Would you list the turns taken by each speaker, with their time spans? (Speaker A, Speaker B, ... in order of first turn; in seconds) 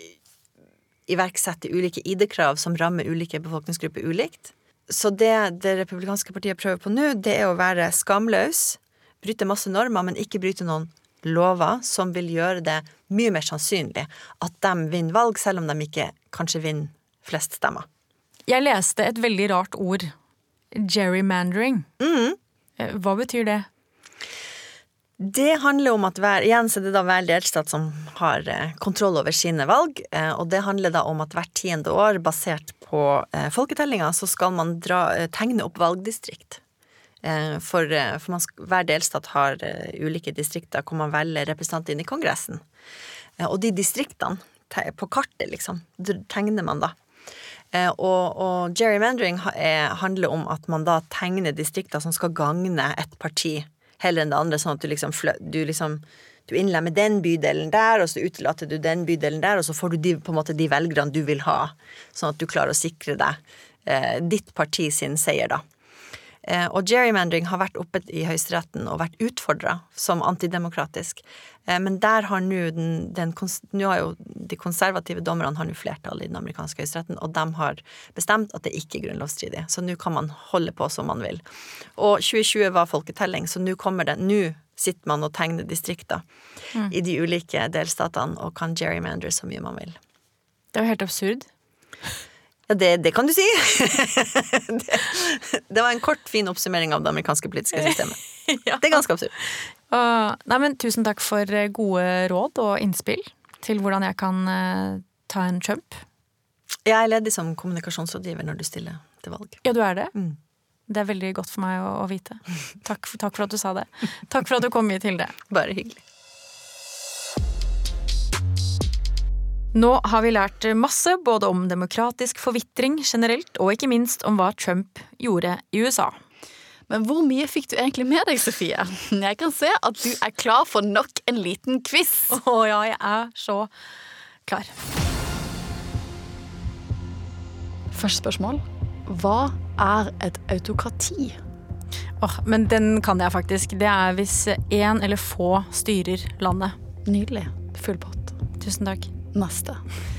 Speaker A: 1.1-17.9, 22.0-22.4, 25.2-36.6, 37.2-42.6, 43.4-46.9, 47.7-65.6, 66.5-81.4, 82.0-86.2, 86.9-90.0, 92.7-98.2, 98.8-99.3, 106.8-109.6, 115.5-116.0
Speaker B: 18.5-20.1, 20.7-21.9, 22.8-23.7, 90.7-91.5, 98.5-98.9, 99.9-106.0, 109.6-110.1, 110.9-115.3, 119.7-126.2, 132.3-133.7, 134.5-134.7, 142.2-146.7, 148.6-149.1
Speaker C: 126.9-132.4, 137.9-141.4, 147.1-148.3, 149.3-149.8